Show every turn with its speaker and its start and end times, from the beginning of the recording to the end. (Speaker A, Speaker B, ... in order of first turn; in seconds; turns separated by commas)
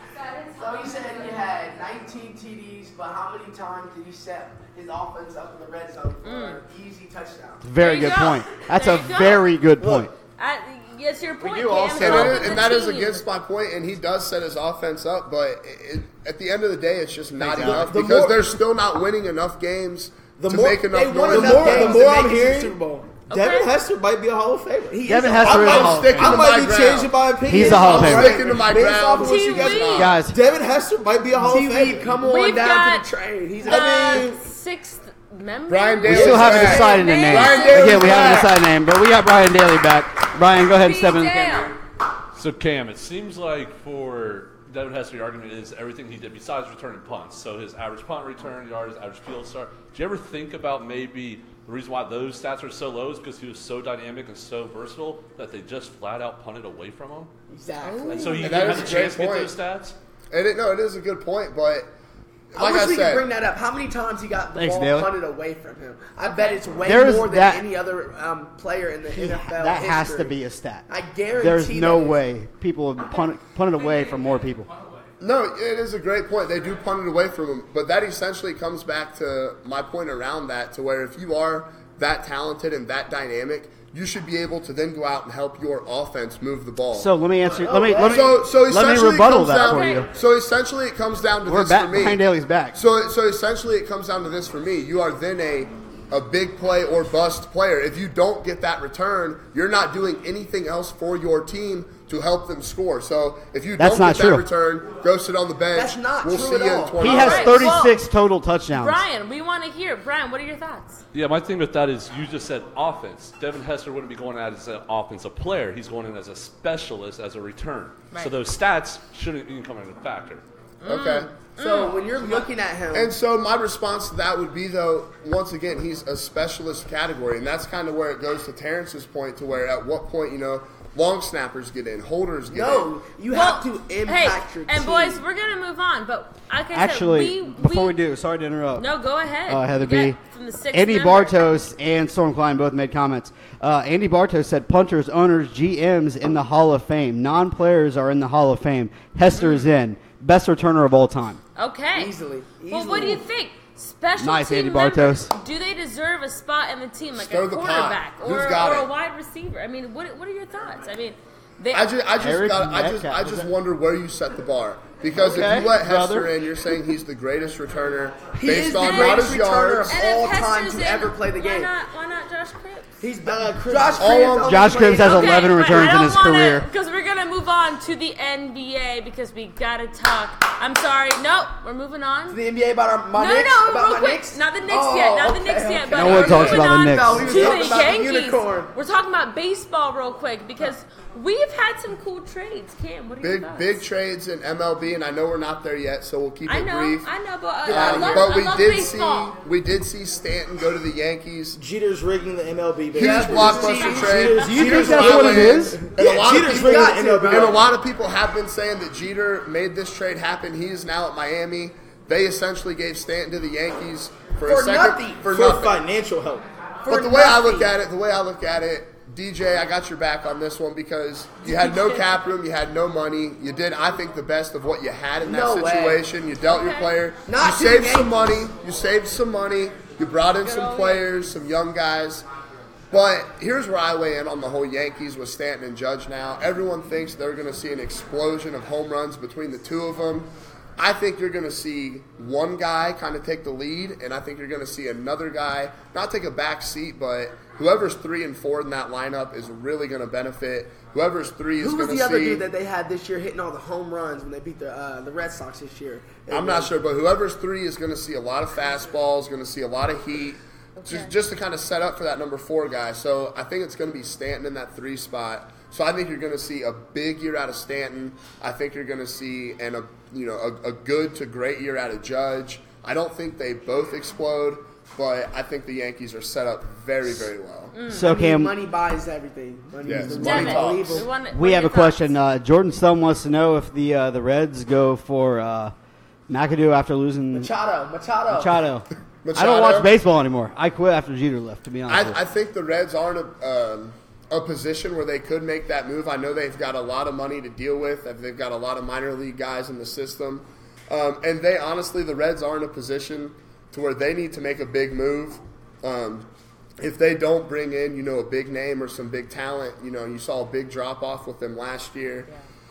Speaker A: 0.5-7.7, Speaker B: 0.8-1.1, Speaker B: 6.2-6.6, Speaker C: 7.6-10.1, Speaker B: 7.8-9.5, Speaker D: 9.8-10.1, Speaker B: 10.4-13.2, Speaker C: 11.4-12.6, Speaker E: 11.9-22.1, Speaker C: 17.4-18.0, Speaker D: 17.5-18.5, Speaker D: 20.4-32.1, Speaker A: 20.9-23.1, Speaker B: 23.3-23.7, Speaker A: 24.9-26.1, Speaker C: 25.1-26.5, Speaker E: 25.5-30.2, Speaker C: 27.5-28.4, Speaker A: 27.6-28.6, Speaker B: 29.2-30.1, Speaker C: 30.0-30.4, Speaker A: 31.4-34.3, Speaker B: 32.2-33.1, Speaker D: 33.6-34.4, Speaker B: 33.6-38.3, Speaker E: 35.7-38.5, Speaker C: 36.1-41.8, Speaker D: 36.1-36.7, Speaker B: 40.7-41.8, Speaker F: 42.3-57.3, Speaker A: 57.5-58.9, Speaker B: 57.9-58.5, Speaker F: 58.1-60.0, Speaker E: 58.4-59.5, Speaker E: 60.3-61.9, Speaker E: 62.5-63.3, Speaker A: 62.5-70.3, Speaker C: 64.5-65.1, Speaker B: 66.2-66.6, Speaker C: 66.8-67.7, Speaker C: 69.1-74.7, Speaker A: 70.9-72.2, Speaker E: 75.2-87.1, Speaker C: 86.9-90.1, Speaker A: 87.4-88.4, Speaker E: 88.1-107.8, Speaker B: 89.6-90.1, Speaker C: 91.5-92.8, Speaker C: 103.8-104.5, Speaker A: 105.7-107.7, Speaker C: 107.0-109.0, Speaker B: 107.1-108.0, Speaker B: 108.7-111.0, Speaker F: 111.1-120.4, Speaker B: 120.8-122.0, Speaker E: 120.9-121.4, Speaker A: 121.6-123.2, Speaker E: 122.9-132.9, Speaker A: 132.5-135.2, Speaker B: 133.3-138.0, Speaker C: 136.7-138.9, Speaker B: 138.8-141.4, Speaker C: 139.5-140.2, Speaker C: 140.7-151.4, Speaker B: 149.3-149.7, Speaker B: 151.6-152.1, Speaker A: 151.9-153.2, Speaker B: 152.7-161.9, Speaker C: 154.2-155.3, Speaker E: 157.2-158.9, Speaker E: 161.7-170.0, Speaker C: 162.2-163.5, Speaker C: 165.2-166.3, Speaker A: 168.3-171.7, Speaker B: 168.8-169.2, Speaker B: 169.9-172.9, Speaker A: 173.0-175.9, Speaker D: 173.2-174.3, Speaker E: 174.0-174.8, Speaker C: 174.4-176.7, Speaker B: 174.9-182.4, Speaker A: 182.3-188.7, Speaker B: 183.2-193.8, Speaker C: 185.9-187.6, Speaker E: 186.2-186.6, Speaker E: 193.2-197.1, Speaker B: 196.5-199.3, Speaker A: 197.7-198.2, Speaker E: 197.7-201.6, Speaker D: 201.6-207.6, Speaker E: 202.9-215.8, Speaker A: 203.0-207.7, Speaker B: 203.7-204.0, Speaker C: 204.3-205.8, Speaker A: 214.4-215.4, Speaker D: 215.3-216.5, Speaker A: 216.8-217.7, Speaker E: 216.8-232.2, Speaker B: 221.4-222.0, Speaker A: 225.2-226.0, Speaker B: 226.4-226.9, Speaker A: 227.3-228.2, Speaker B: 230.4-231.1, Speaker E: 232.9-252.5, Speaker A: 251.6-256.7, Speaker E: 256.3-277.8, Speaker B: 260.8-261.1, Speaker B: 277.7-278.1, Speaker C: 277.9-278.5, Speaker A: 278.0-281.1, Speaker E: 279.8-281.1, Speaker B: 280.1-282.1, Speaker C: 281.3-285.7, Speaker C: 286.3-287.5, Speaker A: 287.3-288.6, Speaker C: 288.3-292.2, Speaker E: 289.2-289.9, Speaker E: 291.9-306.3, Speaker E: 306.8-312.3